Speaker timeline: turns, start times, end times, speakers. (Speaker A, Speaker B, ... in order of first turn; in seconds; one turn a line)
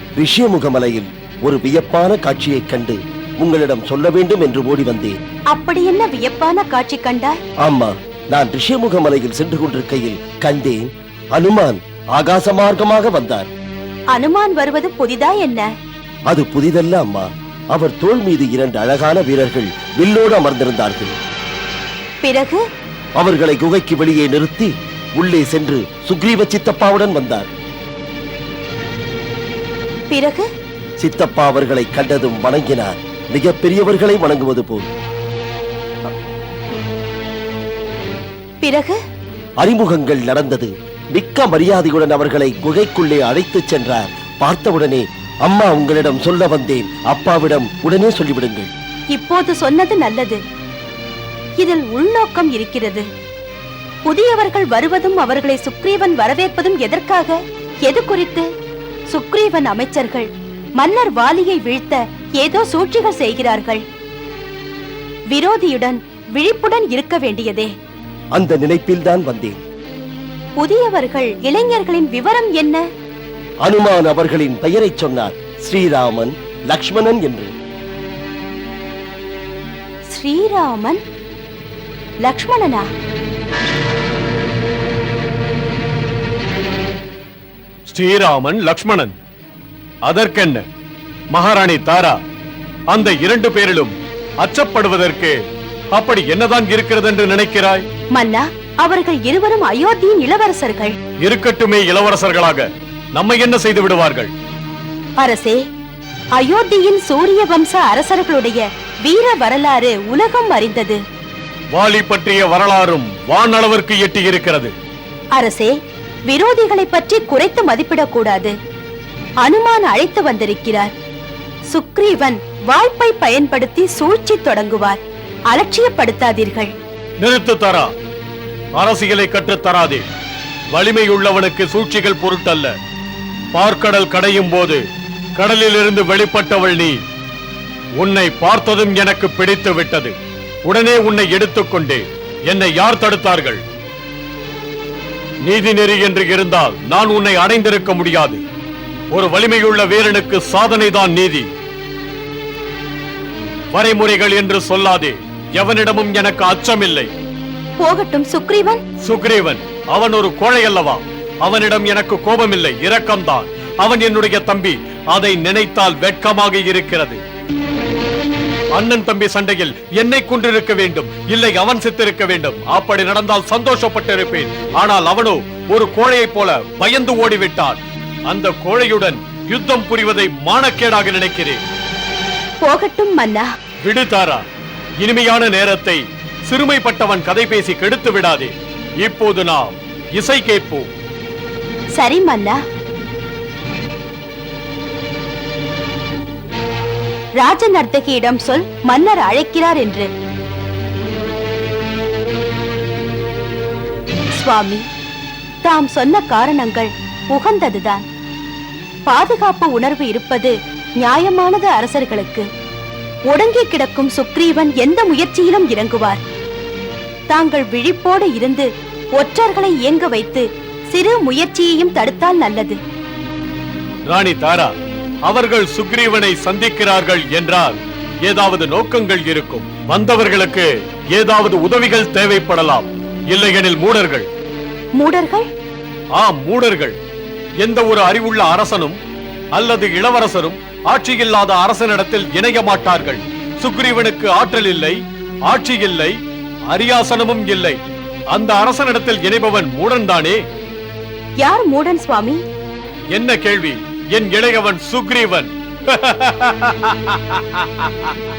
Speaker A: 0.2-5.2
Speaker B: 5.5-7.4
Speaker A: 7.6-10.8
Speaker A: 11.4-13.5
Speaker B: 14.1-15.7
Speaker A: 16.3-21.1
Speaker B: 22.2-22.6
Speaker A: 23.2-27.5
Speaker B: 30.1-30.5
Speaker A: 31.0-34.9
Speaker B: 38.6-39.0
Speaker A: 39.6-48.7
Speaker B: 49.1-50.4
Speaker B: 51.6-53.1
Speaker B: 54.1-58.5
Speaker B: 59.1-60.3
Speaker B: 60.8-63.8
Speaker B: 65.3-67.7
Speaker A: 68.3-69.6
Speaker B: 70.6-72.8
Speaker A: 73.7-77.5
Speaker B: 80.1-81.0
Speaker B: 82.3-82.9
Speaker C: 87.9-89.2
Speaker C: 90.1-90.6
Speaker C: 91.3-92.2
Speaker C: 92.9-95.4
Speaker C: 95.9-97.8
Speaker B: 98.1-100.9
Speaker C: 101.2-104.3
Speaker B: 105.2-105.6
Speaker B: 106.4-111.0
Speaker C: 111.7-114.7
Speaker B: 115.4-115.7
Speaker B: 116.3-118.5
Speaker B: 119.4-120.9
Speaker B: 121.7-125.0
Speaker B: 125.5-126.7
Speaker C: 127.2-127.9
Speaker C: 128.8-130.1
Speaker C: 130.7-132.7
Speaker C: 133.5-134.8
Speaker C: 135.4-137.0
Speaker C: 138.0-140.2
Speaker C: 140.7-143.6
Speaker C: 145.4-148.4
Speaker C: 149.1-151.5
Speaker C: 153.7-157.1
Speaker B: 157.8-158.8
Speaker C: 159.0-167.2
Speaker C: 168.7-181.6
Speaker B: 182.6-183.5
Speaker C: 183.8-184.4
Speaker C: 185.0-190.9
Speaker B: 192.0-192.6
Speaker B: 197.4-200.1
Speaker B: 204.3-204.8
Speaker B: 205.6-208.1
Speaker B: 209.1-212.5
Speaker B: 213.3-216.2
Speaker B: 217.3-222.8
Speaker C: 224.1-224.8
Speaker C: 225.3-234.3
Speaker B: 235.0-235.5
Speaker C: 236.2-237.0
Speaker C: 237.6-239.0
Speaker C: 239.6-246.2
Speaker C: 246.7-247.8
Speaker C: 248.3-250.4
Speaker B: 251.4-252.4
Speaker C: 253.1-258.1